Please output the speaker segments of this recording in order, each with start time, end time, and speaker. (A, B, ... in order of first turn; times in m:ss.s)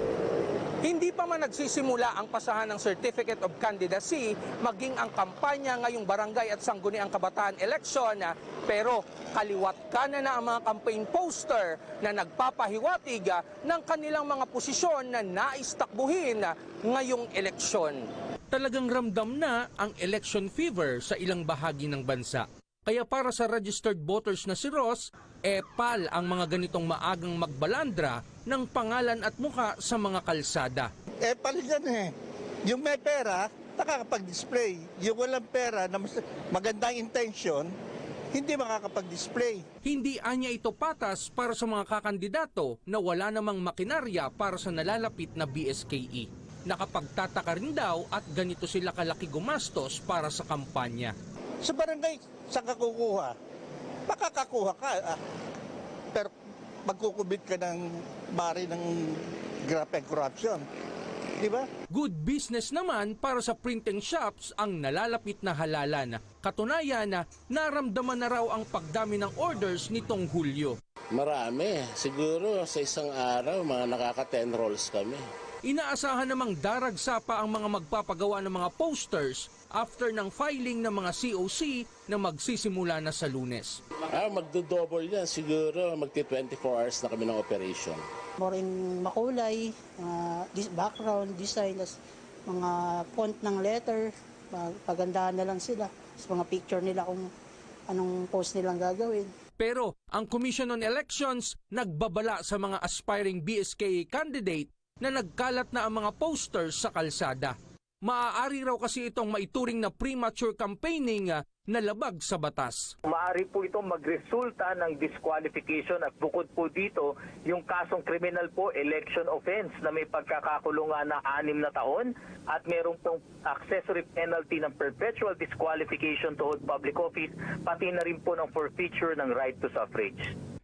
0:00.8-0:30.9 A
0:31.2-0:32.1 B
0:32.6-0:37.7 B
0:38.3-0:39.6 B
0:39.8-0:51.2 A
0:51.6-0:53.3 B
0:54.1-0:55.2 B
0:56.8-1:00.6 B
1:01.4-1:01.7 B
1:01.9-1:10.8 A
1:11.1-1:15.3 C
1:15.6-1:23.8 A
1:24.1-1:28.0 C
1:28.4-1:32.0 D
1:32.5-1:37.3 D
1:37.9-1:39.3 D
1:39.6-1:52.9 A
1:53.1-2:10.3 E